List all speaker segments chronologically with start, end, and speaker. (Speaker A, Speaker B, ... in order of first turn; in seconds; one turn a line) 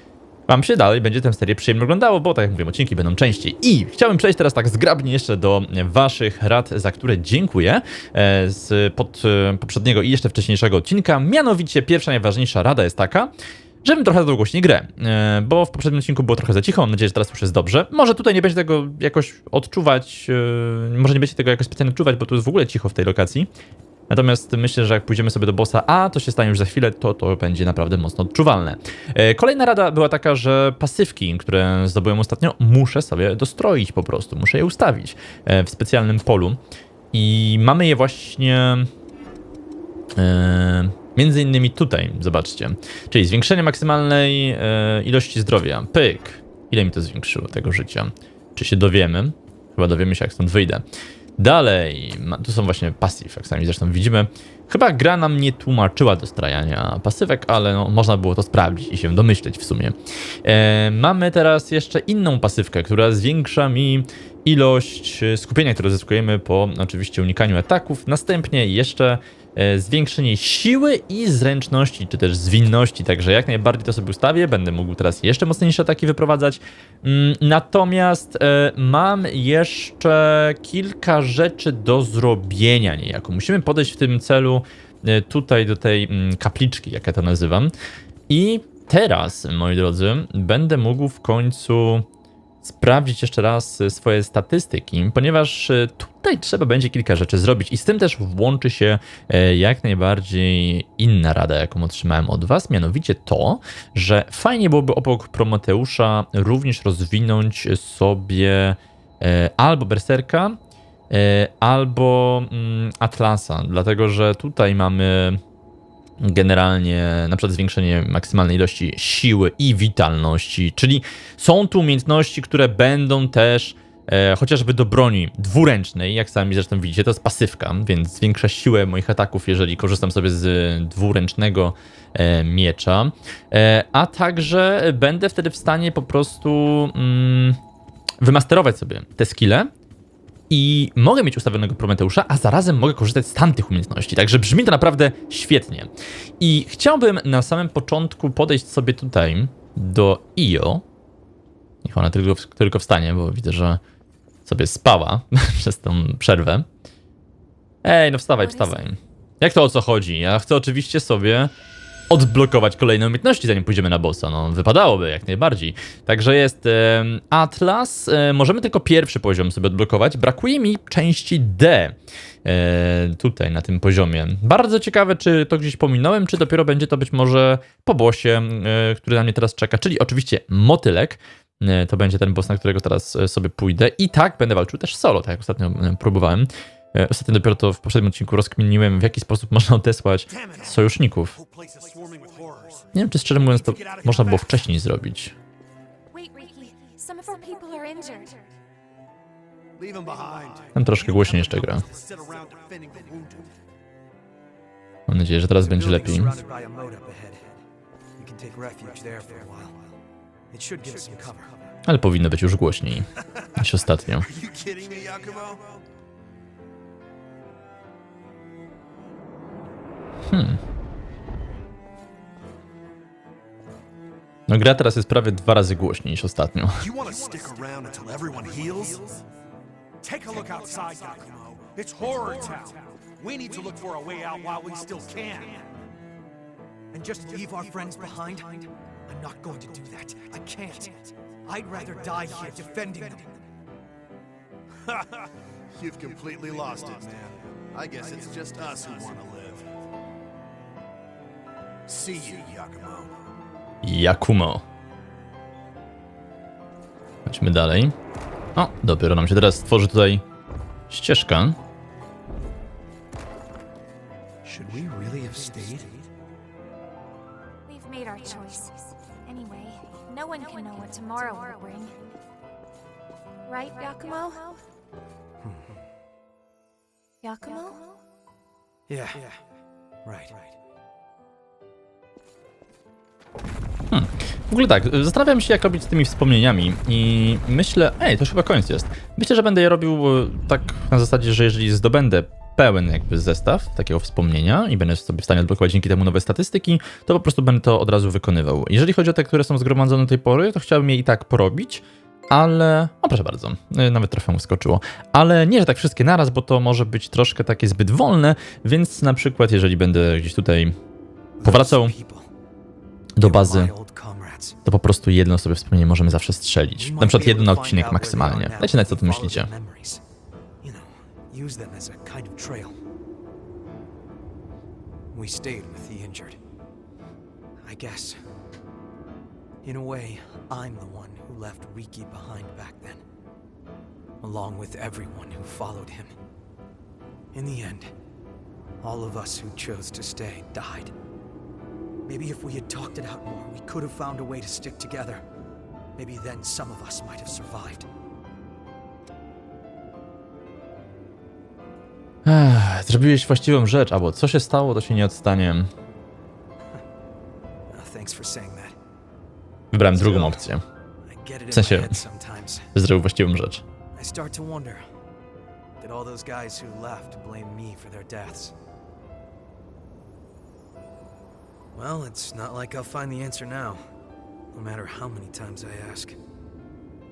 Speaker A: 0.5-13.3
Speaker A: 13.8-23.5
Speaker A: 24.1-36.6
Speaker A: 37.1-38.9
Speaker A: 40.2-50.8
Speaker A: 51.4-87.7
Speaker A: 88.3-92.1
Speaker A: 92.6-110.6
Speaker A: 111.1-115.4
Speaker A: 116.2-137.6
Speaker A: 138.2-139.7
Speaker A: 140.5-145.9
Speaker A: 146.4-150.8
Speaker A: 151.8-153.8
Speaker A: 154.5-156.7
Speaker A: 157.8-161.5
Speaker B: 158.4-158.7
Speaker A: 162.1-191.4
Speaker C: 190.3-192.9
Speaker A: 192.9-195.3
Speaker C: 193.5-194.7
Speaker B: 196.1-198.5
Speaker C: 199.8-203.5
Speaker A: 200.8-201.8
Speaker A: 205.1-206.3
Speaker D: 205.6-207.6
Speaker D: 208.2-209.8
Speaker D: 210.5-211.6
Speaker A: 211.8-214.3
Speaker C: 214.2-215.8
Speaker A: 220.3-220.6
Speaker A: 224.5-226.9
Speaker C: 226.8-229.2
Speaker C: 230.0-235.8
Speaker D: 236.9-243.4
Speaker C: 245.7-249.7
Speaker C: 251.9-253.2
Speaker A: 253.8-254.6
Speaker A: 257.3-257.9
Speaker A: 258.6-260.2
Speaker A: 260.9-261.6
Speaker D: 264.4-265.9
Speaker B: 267.7-272.0
Speaker B: 273.5-274.6
Speaker D: 275.4-275.7
Speaker B: 277.2-278.0
Speaker D: 278.9-279.4
Speaker D: 280.1-280.5
Speaker A: 283.9-310.8
Speaker D: 311.4-312.3
Speaker A: 311.4-311.9
Speaker A: 313.2-313.7
Speaker D: 313.2-314.6
Speaker A: 314.6-319.5
Speaker D: 316.8-320.0
Speaker D: 320.6-322.8
Speaker D: 325.1-326.4
Speaker D: 327.6-328.2
Speaker D: 329.6-333.0
Speaker D: 334.2-336.1
Speaker D: 337.3-337.9
Speaker D: 338.8-340.9
Speaker D: 342.1-345.2
Speaker D: 346.0-347.9
Speaker A: 352.2-355.7
Speaker D: 357.7-358.7
Speaker A: 359.7-360.6
Speaker D: 359.9-360.5
Speaker D: 361.1-362.7
Speaker A: 361.5-362.0
Speaker A: 362.7-363.6
Speaker D: 363.9-364.8
Speaker D: 365.8-368.6
Speaker D: 371.7-373.8
Speaker D: 374.5-376.2